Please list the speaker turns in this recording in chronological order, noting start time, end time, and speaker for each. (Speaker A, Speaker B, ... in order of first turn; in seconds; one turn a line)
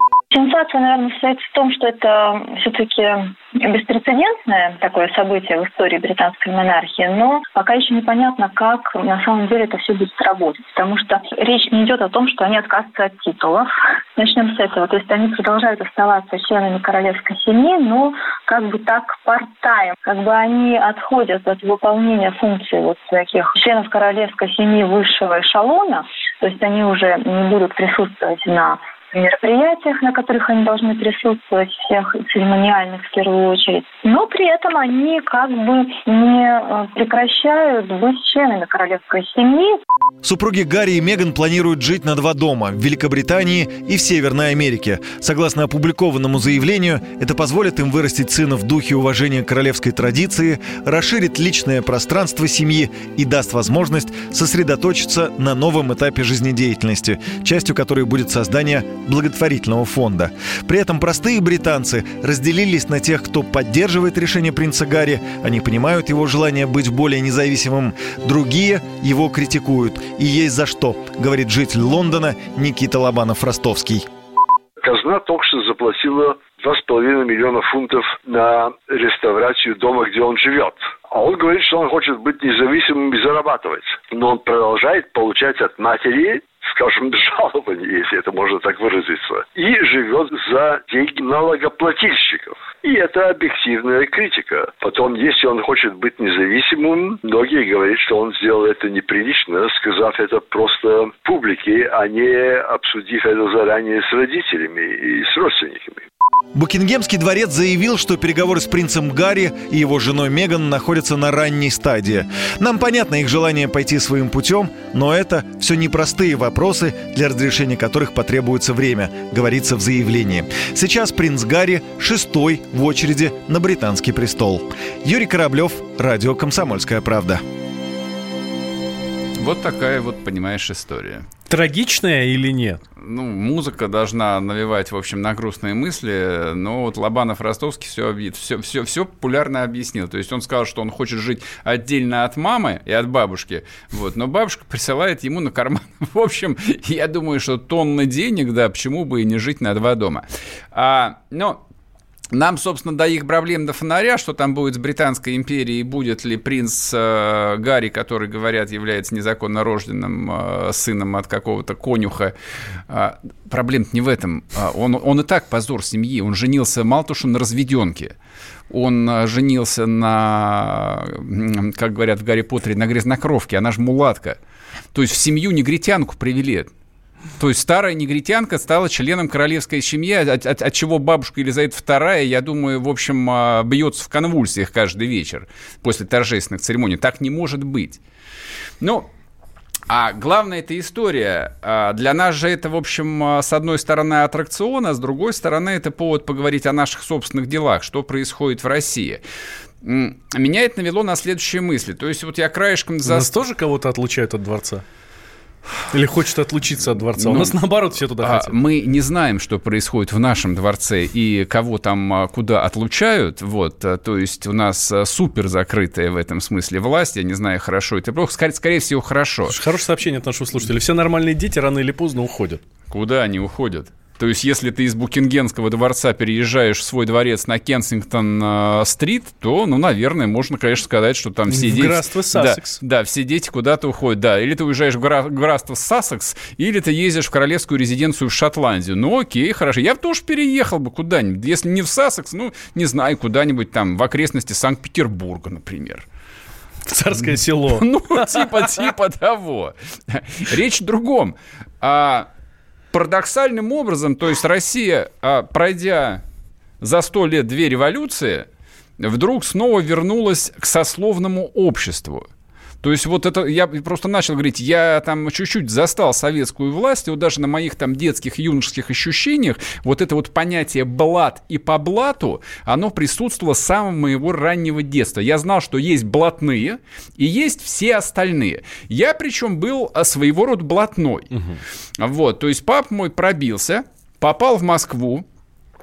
Speaker A: 0.3-39.8
Speaker B: 40.2-74.0
Speaker C: 74.8-106.0
Speaker B: 106.5-127.4
Speaker D: 129.4-131.3
Speaker E: 131.5-132.8
Speaker D: 133.0-151.6
Speaker D: 152.3-162.3
Speaker D: 162.9-168.1
Speaker D: 168.7-174.4
Speaker D: 174.9-176.7
Speaker D: 177.4-188.0
Speaker D: 188.8-189.1
Speaker D: 189.9-199.2
Speaker D: 199.8-203.3
Speaker E: 203.0-204.8
Speaker E: 205.9-208.5
Speaker D: 207.1-219.6
Speaker E: 219.5-222.6
Speaker D: 222.9-246.0
Speaker E: 231.5-232.8
Speaker E: 246.9-248.4
Speaker D: 247.2-252.3
Speaker D: 252.9-256.2
Speaker D: 256.8-258.5
Speaker D: 259.0-262.3
Speaker D: 262.8-281.3
Speaker E: 281.3-281.6
Speaker D: 282.0-285.2